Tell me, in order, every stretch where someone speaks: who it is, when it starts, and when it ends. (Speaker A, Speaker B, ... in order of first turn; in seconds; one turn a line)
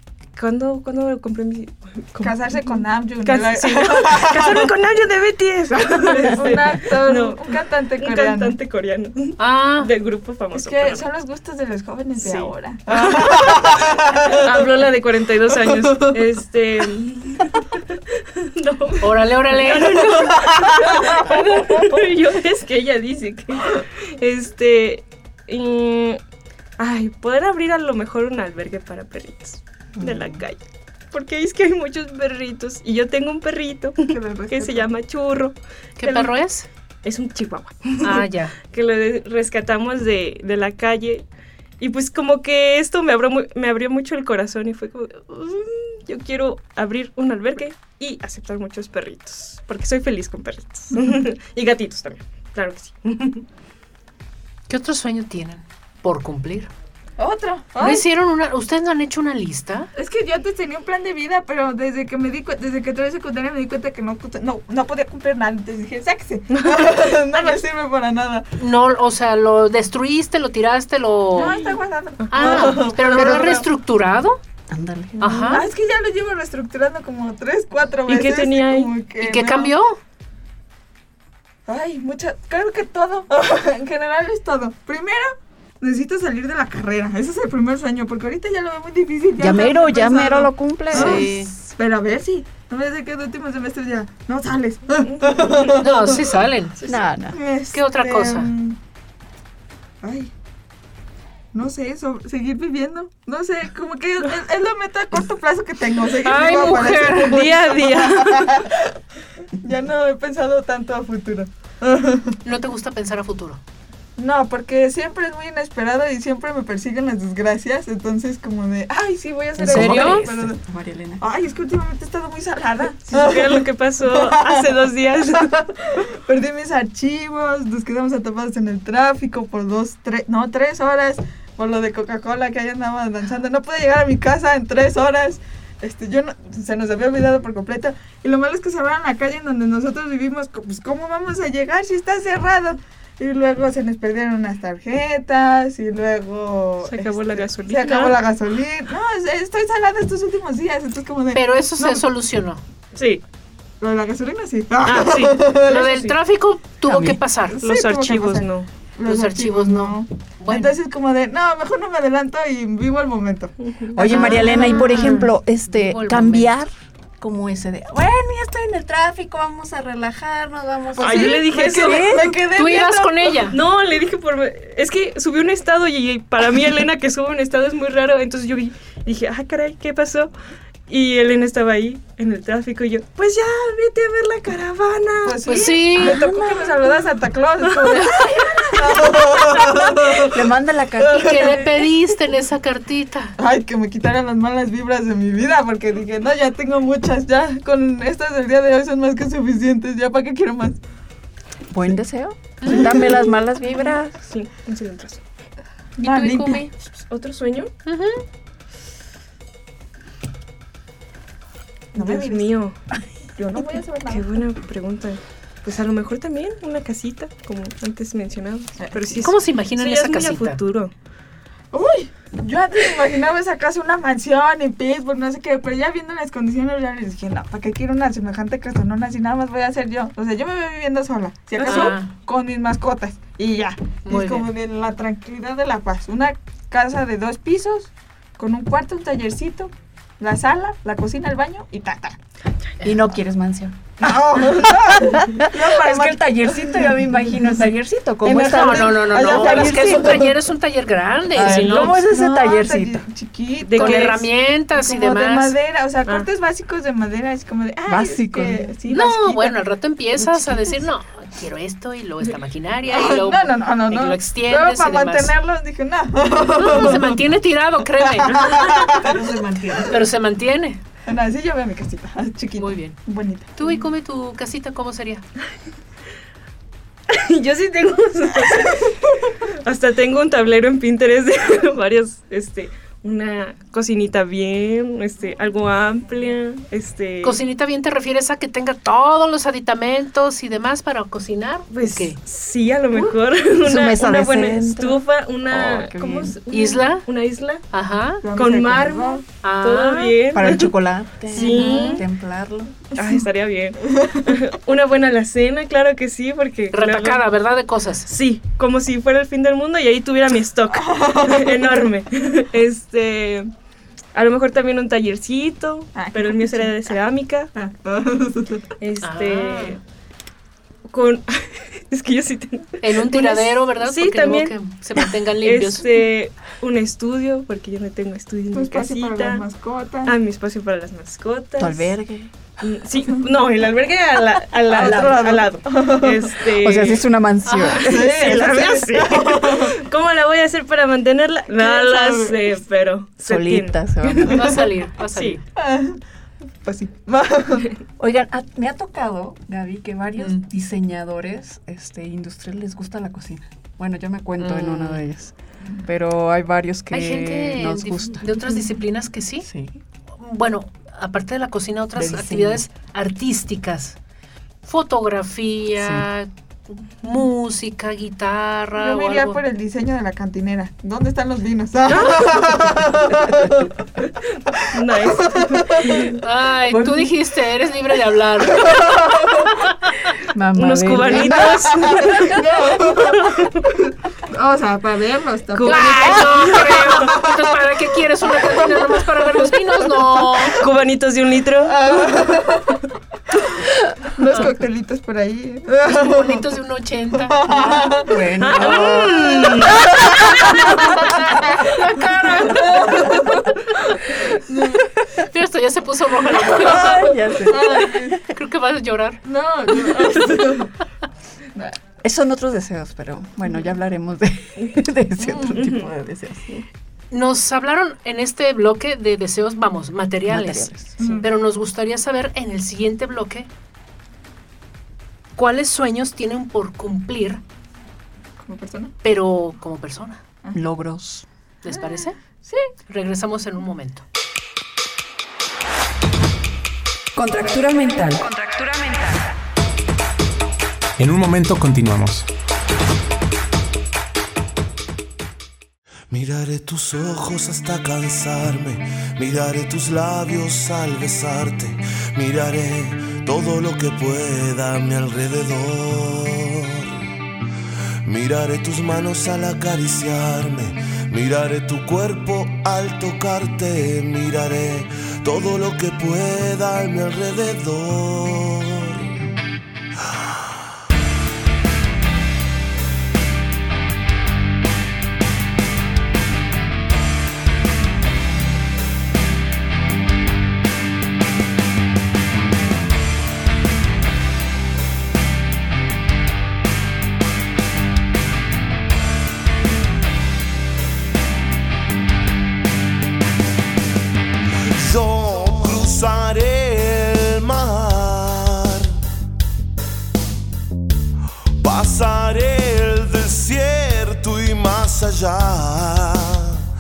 Speaker A: 0.3-11.0
Speaker B: 2.2-4.7
Speaker B: 6.2-8.6
Speaker C: 9.4-9.9
Speaker B: 10.5-14.5
Speaker A: 12.2-26.2
Speaker B: 15.6-16.2
Speaker C: 19.0-20.1
Speaker B: 20.0-22.0
Speaker A: 26.8-30.6
Speaker D: 30.0-30.4
Speaker A: 31.1-36.3
Speaker B: 34.0-34.9
Speaker C: 36.0-36.7
Speaker A: 37.0-41.2
Speaker C: 38.0-38.5
Speaker A: 41.8-53.4
Speaker C: 54.7-56.7
Speaker B: 57.2-58.0
Speaker C: 57.8-59.9
Speaker B: 60.0-68.5
Speaker A: 66.5-67.6
Speaker C: 68.6-71.6
Speaker B: 71.3-73.7
Speaker A: 71.4-72.9
Speaker C: 72.3-74.4
Speaker D: 74.7-75.6
Speaker C: 75.2-75.7
Speaker B: 75.5-79.7
Speaker A: 78.1-78.9
Speaker C: 79.2-80.0
Speaker B: 81.7-96.5
Speaker D: 89.4-91.3
Speaker C: 90.9-91.5
Speaker A: 95.0-95.6
Speaker C: 95.7-96.8
Speaker A: 96.8-97.1
Speaker D: 96.9-97.4
Speaker B: 97.3-98.8
Speaker C: 97.7-98.5
Speaker B: 100.0-100.3
Speaker B: 101.5-109.0
Speaker C: 106.2-107.4
Speaker A: 107.3-108.7
Speaker B: 109.5-112.4
Speaker C: 112.4-113.6
Speaker B: 114.2-120.6
Speaker D: 119.6-121.2
Speaker C: 119.6-120.3
Speaker B: 121.2-152.0
Speaker A: 123.1-125.6
Speaker A: 146.8-148.2
Speaker C: 151.3-152.6
Speaker A: 152.9-153.2
Speaker B: 153.8-156.1
Speaker A: 154.8-155.9
Speaker C: 155.7-157.6
Speaker D: 156.8-157.2
Speaker B: 157.5-165.1
Speaker A: 157.6-158.7
Speaker C: 159.0-160.8
Speaker A: 163.6-164.6
Speaker D: 163.9-166.7
Speaker C: 164.0-166.5
Speaker D: 167.2-172.4
Speaker B: 170.9-173.4
Speaker A: 171.0-172.3
Speaker C: 172.5-173.6
Speaker A: 173.5-180.3
Speaker A: 180.9-186.9
Speaker B: 185.2-191.7
Speaker C: 185.4-186.7
Speaker A: 187.7-189.8
Speaker D: 190.2-191.6
Speaker C: 191.1-193.4
Speaker B: 193.4-200.8
Speaker D: 201.7-204.2
Speaker C: 202.6-203.1
Speaker B: 202.6-203.2
Speaker A: 204.2-205.2
Speaker B: 206.0-206.7
Speaker C: 206.0-206.6
Speaker A: 206.4-207.7
Speaker C: 207.8-208.2
Speaker A: 211.9-212.8
Speaker B: 211.9-212.5
Speaker B: 213.3-214.3
Speaker A: 214.1-220.9
Speaker C: 219.1-220.6
Speaker B: 221.7-242.2
Speaker A: 231.6-231.9
Speaker C: 231.6-232.1
Speaker C: 234.0-234.5
Speaker D: 242.8-243.8
Speaker B: 244.0-250.4
Speaker D: 244.7-250.3
Speaker C: 248.3-252.0
Speaker D: 251.3-253.0
Speaker B: 251.3-259.6
Speaker A: 253.6-254.2
Speaker C: 253.8-255.6
Speaker D: 257.9-258.7
Speaker C: 258.9-265.3
Speaker B: 262.9-267.2
Speaker C: 266.5-268.7
Speaker B: 268.0-270.0
Speaker A: 268.3-268.9
Speaker C: 269.8-270.8
Speaker B: 271.1-273.5
Speaker C: 272.6-273.0
Speaker C: 273.6-275.2
Speaker A: 277.1-287.4
Speaker C: 287.2-292.2
Speaker A: 291.7-297.6
Speaker D: 292.9-296.4
Speaker C: 296.5-297.1
Speaker C: 297.7-298.2
Speaker B: 298.2-299.2
Speaker A: 298.4-300.7
Speaker C: 299.4-300.2
Speaker D: 300.3-302.7
Speaker A: 301.3-302.0
Speaker B: 301.4-301.9
Speaker C: 301.5-302.0
Speaker A: 302.9-307.2
Speaker B: 303.0-303.2
Speaker B: 303.9-304.4
Speaker C: 306.7-308.1
Speaker A: 308.1-313.5
Speaker B: 310.7-311.8
Speaker A: 314.1-317.5
Speaker B: 315.9-316.9
Speaker B: 317.5-318.6
Speaker A: 318.8-319.8
Speaker C: 319.0-319.8
Speaker A: 320.9-324.6
Speaker C: 322.8-326.0
Speaker A: 325.4-329.4
Speaker B: 328.5-330.1
Speaker A: 330.0-332.0
Speaker D: 331.6-332.3
Speaker A: 332.6-337.1
Speaker B: 334.7-336.3
Speaker D: 336.6-338.1
Speaker C: 337.4-337.8
Speaker A: 337.6-344.6
Speaker B: 337.8-339.8
Speaker B: 341.5-342.5
Speaker D: 343.2-344.6
Speaker C: 344.3-345.4
Speaker A: 345.1-345.4
Speaker B: 345.6-346.0
Speaker B: 346.6-347.7
Speaker D: 348.0-358.6
Speaker C: 350.2-350.4
Speaker C: 354.4-355.1
Speaker C: 356.9-359.5
Speaker D: 359.4-359.8
Speaker C: 360.1-364.0
Speaker D: 361.9-362.6
Speaker C: 364.6-369.4
Speaker D: 365.8-366.1
Speaker B: 368.8-374.0
Speaker A: 371.9-372.4
Speaker A: 374.0-376.2
Speaker B: 374.6-376.2
Speaker C: 376.0-379.4
Speaker B: 378.4-379.6
Speaker D: 380.2-382.0
Speaker A: 380.5-383.6
Speaker B: 381.1-390.5
Speaker A: 385.5-387.1
Speaker C: 385.6-390.6
Speaker A: 390.5-392.1
Speaker B: 391.6-396.4
Speaker C: 395.9-397.9
Speaker B: 397.2-398.2
Speaker D: 397.6-399.8
Speaker A: 398.4-399.9
Speaker B: 399.7-401.7
Speaker C: 400.4-403.2
Speaker B: 402.4-403.6
Speaker C: 404.3-407.1
Speaker D: 406.4-408.2
Speaker B: 406.6-408.2
Speaker C: 408.2-409.2
Speaker B: 409.2-410.8
Speaker D: 412.0-416.6
Speaker A: 415.4-415.9
Speaker C: 417.1-423.5
Speaker D: 420.3-421.0
Speaker B: 421.0-421.3
Speaker C: 425.3-427.4
Speaker B: 428.4-428.9
Speaker C: 429.0-430.2
Speaker D: 430.5-431.2
Speaker C: 431.6-432.2
Speaker B: 431.7-432.7
Speaker C: 432.9-434.0
Speaker D: 437.1-439.1
Speaker E: 446.1-456.9
Speaker E: 458.0-469.1
Speaker E: 494.7-498.9
Speaker E: 501.6-506.6